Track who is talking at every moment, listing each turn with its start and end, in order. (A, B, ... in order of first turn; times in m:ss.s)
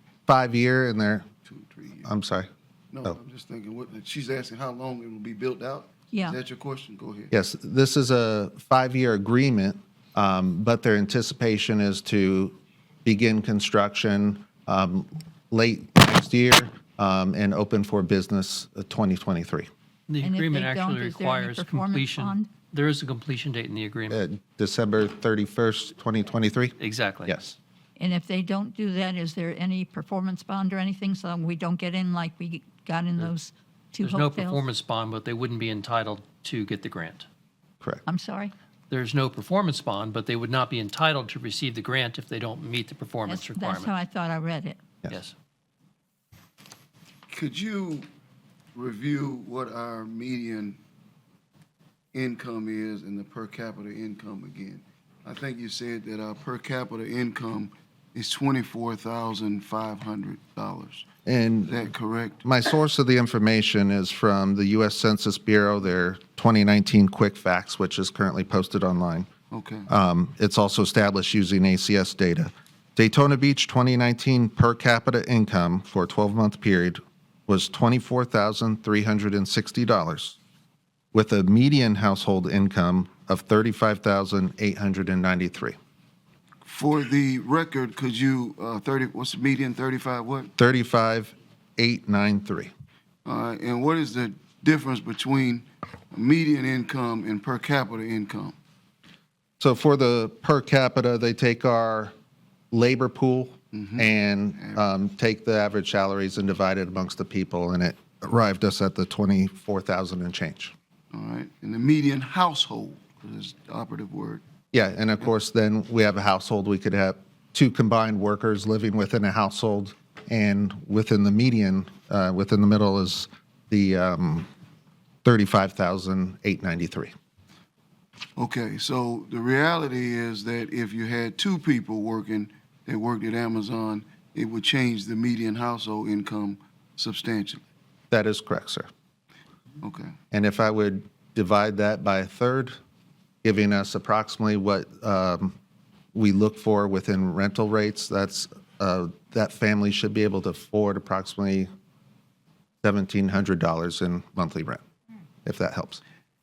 0:00.3-0:01.2 A
0:01.4-0:02.1 B
0:02.0-0:02.5 A
0:02.9-0:07.3 B
0:06.1-0:06.4 C
0:07.3-0:19.7 A
0:20.1-0:24.2 D
0:20.2-0:22.5 C
0:24.1-0:27.6 A
0:26.8-0:27.3 D
0:28.0-0:34.6 C
0:34.0-0:37.2 D
0:38.0-0:38.5 C
0:38.9-0:43.9 D
0:43.2-0:44.8 C
0:47.3-0:48.0 B
0:48.7-0:50.8 B
0:52.1-1:01.0 B
1:01.2-1:01.8 A
1:01.7-1:02.4 B
1:02.4-1:09.3 A
1:09.5-1:09.9 B
1:09.9-1:20.4 A
1:21.1-1:25.8 A
1:26.6-1:30.5 B
1:30.6-1:32.7 A
1:33.2-1:38.6 B
1:39.6-1:42.1 A
1:42.7-1:50.7 A
1:43.7-1:44.8 B
1:51.1-1:54.4 B
1:54.7-2:04.5 A
2:05.2-2:07.1 A
2:08.4-2:17.6 B
2:18.1-2:18.9 A
2:19.8-2:20.2 B
2:20.3-2:22.8 A
2:23.4-2:25.5 A
2:26.1-2:31.7 A
2:32.8-2:34.8 A
2:35.4-2:36.0 A